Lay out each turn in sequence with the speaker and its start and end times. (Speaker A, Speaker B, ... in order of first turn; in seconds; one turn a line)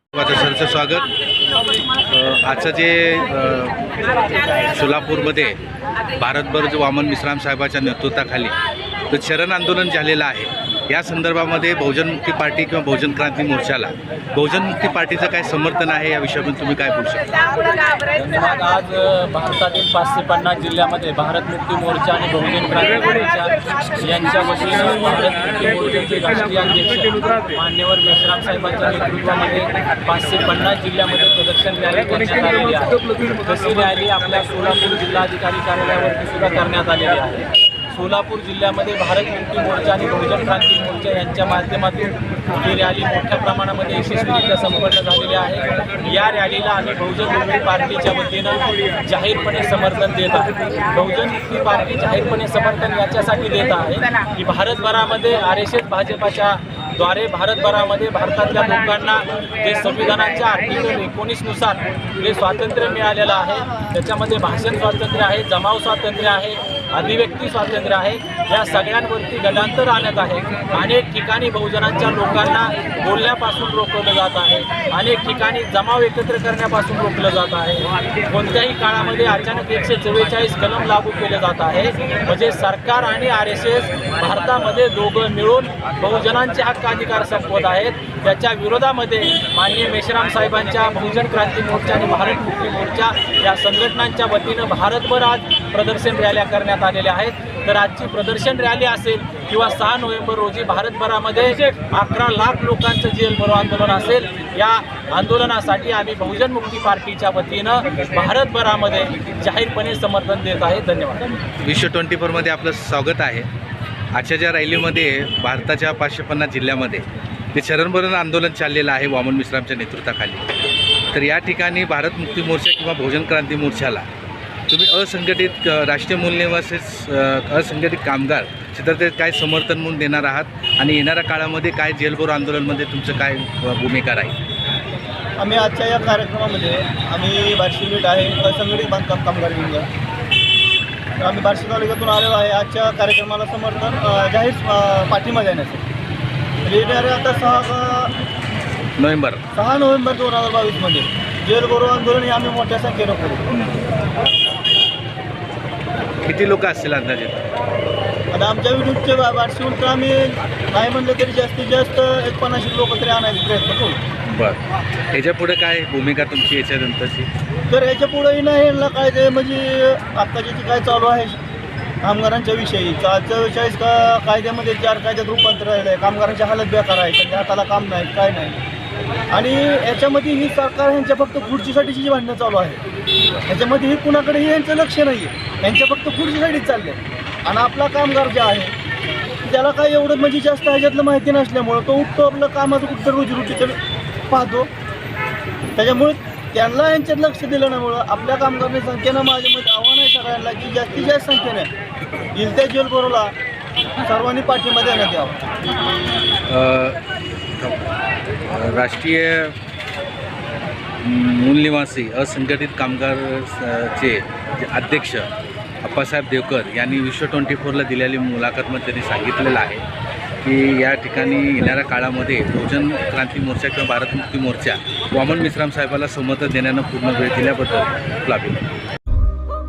Speaker A: 0.1-1.1
Speaker A: 2.1-3.9
Speaker A: 4.6-5.6
Speaker A: 6.2-8.6
Speaker A: 9.1-17.4
Speaker B: 18.1-111.4
Speaker A: 111.6-113.5
Speaker A: 114.1-120.5
Speaker A: 121.1-124.1
Speaker A: 124.7-134.3
Speaker C: 135.4-139.9
Speaker C: 141.2-145.8
Speaker C: 146.6-148.1
Speaker A: 149.0-149.4
Speaker C: 149.5-153.4
Speaker A: 153.5-153.8
Speaker A: 156.2-157.5
Speaker C: 158.3-164.0
Speaker A: 164.3-164.6
Speaker A: 165.1-167.3
Speaker C: 167.7-171.3
Speaker C: 172.0-178.6
Speaker C: 179.3-182.8
Speaker C: 183.5-188.7
Speaker C: 189.4-193.8
Speaker C: 194.3-194.7
Speaker C: 195.8-201.7
Speaker C: 202.3-203.3
Speaker C: 204.0-205.4
Speaker A: 206.5-207.0
Speaker A: 208.5-209.5
Speaker A: 211.0-215.3
Speaker A: 215.8-219.8
Speaker A: 220.4-228.6